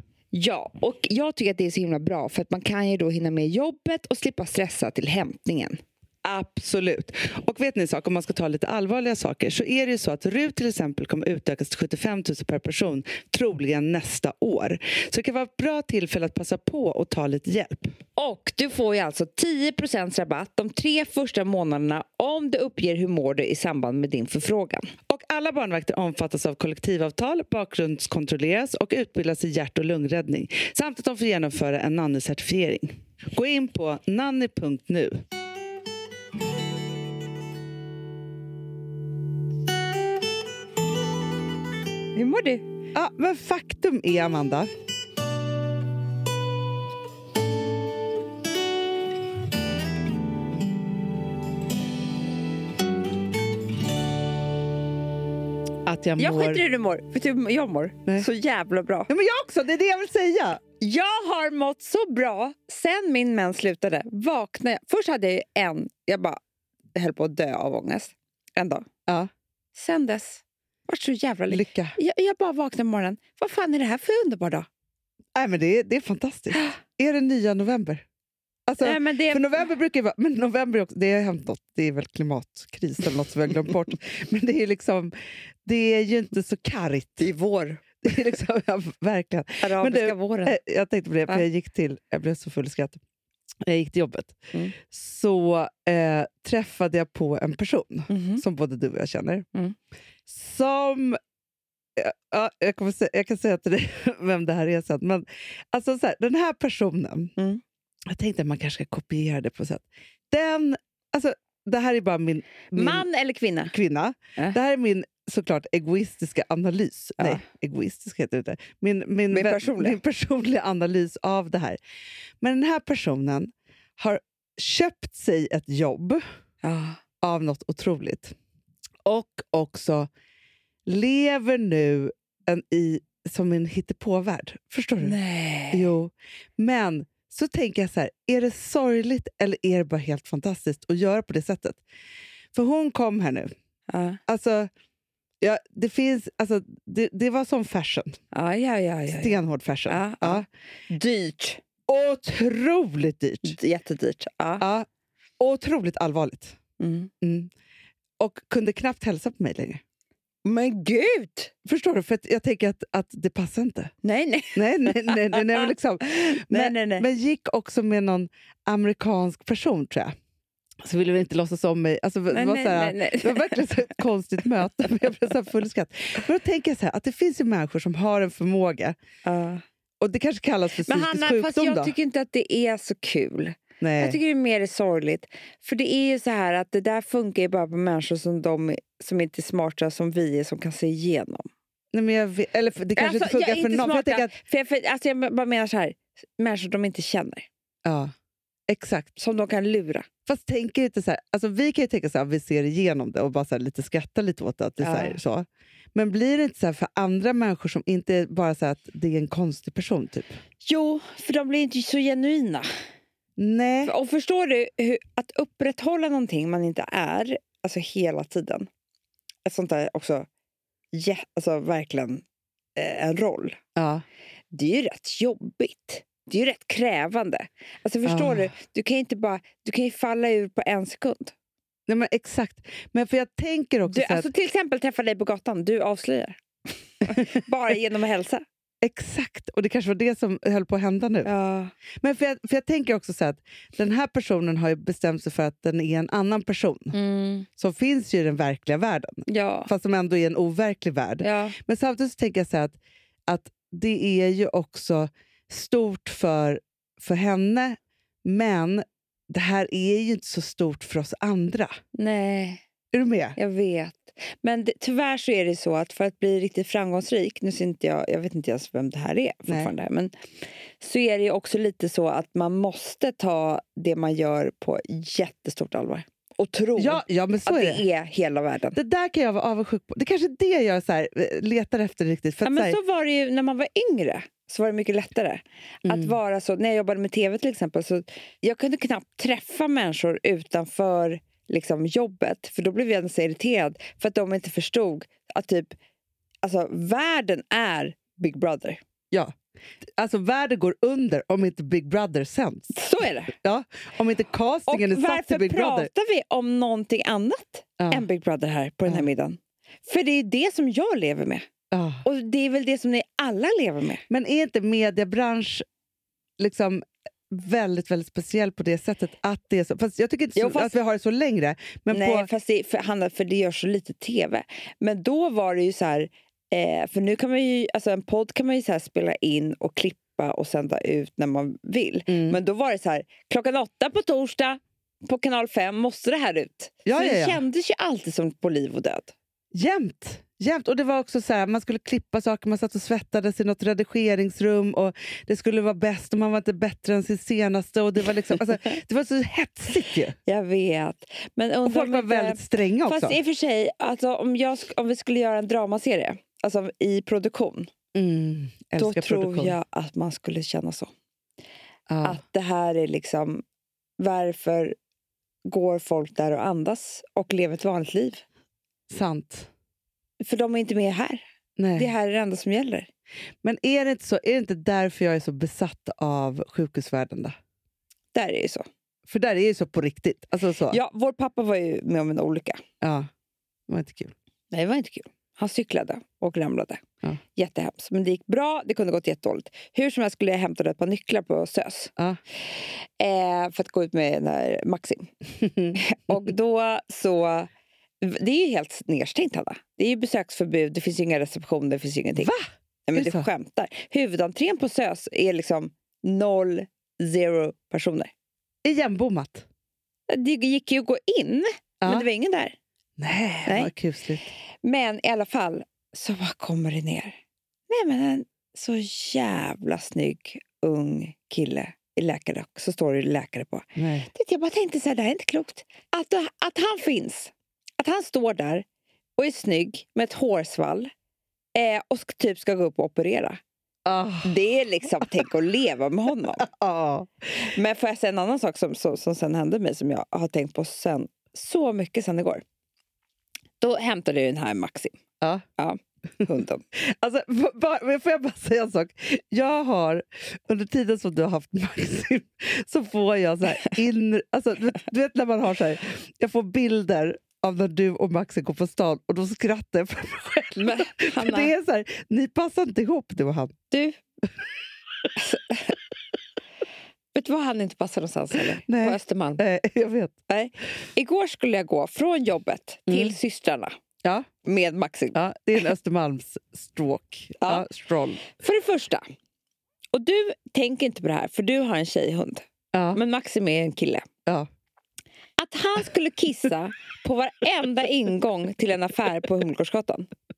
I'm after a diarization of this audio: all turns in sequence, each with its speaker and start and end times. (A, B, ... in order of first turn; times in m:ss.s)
0:00.3-0:05.8 A
0:06.2-0:17.9 B
0:18.2-0:24.9 A
0:25.1-0:35.2 B
0:42.2-0:42.6 A
0:42.9-0:44.7 B
0:55.8-0:56.6 B
0:56.2-0:59.1 A
0:59.1-1:00.6 B
1:00.8-1:06.4 A
1:07.0-1:08.8 A
1:09.8-1:14.7 A
1:11.5-1:12.0 B
1:15.4-1:18.0 B
1:18.7-1:25.1 B
1:18.8-1:19.7 A
1:25.7-1:27.3 B
1:27.2-1:27.8 A
1:28.0-1:33.0 B
1:29.6-1:30.6 A
1:33.6-1:39.5 B
1:38.1-1:38.4 A
1:40.3-1:41.2 B
1:42.0-1:47.3 B
1:48.1-1:53.0 B
1:52.7-1:53.7 A
1:53.7-2:01.8 B
1:59.3-2:00.0 A
2:02.4-2:06.2 B
2:06.6-2:07.0 A
2:07.2-2:08.3 B
2:09.0-2:10.1 B
2:10.9-2:15.2 B
2:15.0-2:15.9 A
2:15.7-2:21.8 B
2:22.5-2:23.5 B
2:23.9-2:24.2 A
2:24.3-2:24.7 B
2:25.4-2:28.2 B
2:28.3-2:31.6 A
2:29.1-2:30.4 B
2:31.9-2:33.6 B
2:33.4-2:34.6 A
2:34.6-2:34.9 B
2:35.4-2:36.6 B
2:36.8-2:37.1 A
2:37.2-2:37.5 B
2:38.2-2:39.8 B
2:40.4-2:41.5 A
2:41.6-2:43.9 B
2:44.0-2:47.0 A
2:44.6-2:50.1 B
2:50.8-2:59.0 B
2:52.3-2:54.0 A
2:59.2-2:59.6 A
3:00.0-3:01.9 B
3:00.8-3:11.5 A
3:03.8-3:04.2 B
3:11.9-3:14.3 B
3:13.0-3:17.5 A
3:17.8-3:18.1 B
3:18.7-3:19.1 B
3:19.2-3:20.1 A
3:20.3-3:30.4 B
3:24.8-3:25.2 A
3:30.6-3:32.7 A
3:33.4-3:33.9 B
3:33.9-3:38.7 A
3:39.5-3:40.3 A
3:40.9-3:42.2 A
3:42.8-3:43.6 A
3:43.8-3:44.0 B
3:44.5-3:51.3 A
3:48.1-3:48.5 B
3:51.9-3:54.3 B
3:53.9-3:56.4 A
3:57.0-3:58.4 A
3:58.8-4:01.3 B
4:01.2-4:01.7 A
4:02.0-4:06.9 B
4:06.9-4:07.5 A
4:07.6-4:21.7 B
4:09.3-4:09.7 A
4:11.2-4:11.6 A
4:22.0-4:22.6 A
4:22.9-4:23.4 B
4:23.4-4:30.1 A
4:30.8-4:38.8 A
4:36.8-4:37.8 B
4:38.8-4:42.8 B
4:42.4-4:55.7 A
4:45.8-4:46.2 B
4:56.4-4:58.8 A
5:00.0-5:02.8 B
5:02.7-5:03.4 A
5:03.4-5:05.9 B
5:04.7-5:11.4 A
5:07.8-5:08.0 B
5:11.7-5:12.0 B
5:12.0-5:14.0 A
5:14.1-5:15.6 B
5:16.4-5:22.3 B
5:20.4-5:20.7 A
5:21.9-5:39.1 A
5:32.1-5:32.4 B
5:36.9-5:37.4 B
5:39.5-5:50.2 B
5:50.3-5:57.7 A
5:51.7-5:53.2 B
5:57.9-5:59.6 B
5:58.8-6:00.9 A
6:01.9-6:02.2 B
6:02.0-6:03.4 A
6:04.0-6:04.8 A
6:05.5-6:08.2 A
6:08.9-6:09.5 B
6:10.2-6:11.2 A
6:11.6-6:11.9 B
6:11.8-6:12.9 A
6:13.4-6:17.3 B
6:18.1-6:18.6 A
6:19.1-6:20.8 B
6:20.7-6:22.6 A
6:22.8-6:23.1 B
6:23.7-6:24.1 B
6:24.5-6:26.8 A
6:27.4-6:31.9 A
6:32.5-6:35.1 A
6:35.8-6:37.5 A
6:38.0-6:42.3 A
6:42.2-6:43.2 B
6:42.9-6:48.1 A
6:48.6-6:49.4 B
6:50.1-6:52.6 A
6:51.8-6:52.1 B
6:53.0-6:54.2 B
6:53.5-6:53.7 A
6:54.6-6:57.1 A
6:57.7-7:08.6 A
7:03.8-7:04.1 B
7:09.2-7:10.9 A
7:11.6-7:13.4 A
7:13.9-7:14.4 B
7:14.2-7:16.5 A
7:16.4-7:17.5 B
7:17.4-7:22.4 A
7:23.6-7:25.0 A
7:25.6-7:26.6 A
7:26.9-7:43.5 B
7:40.6-7:41.5 A
7:43.7-7:44.0 A
7:45.2-7:45.8 A
7:47.2-7:49.4 A
7:48.6-7:50.1 B
7:50.3-7:53.7 A
7:54.4-7:55.2 A
7:55.1-7:58.3 B
7:58.3-7:59.0 A
7:59.9-8:04.0 A
8:02.7-8:03.0 B
8:05.4-8:10.1 A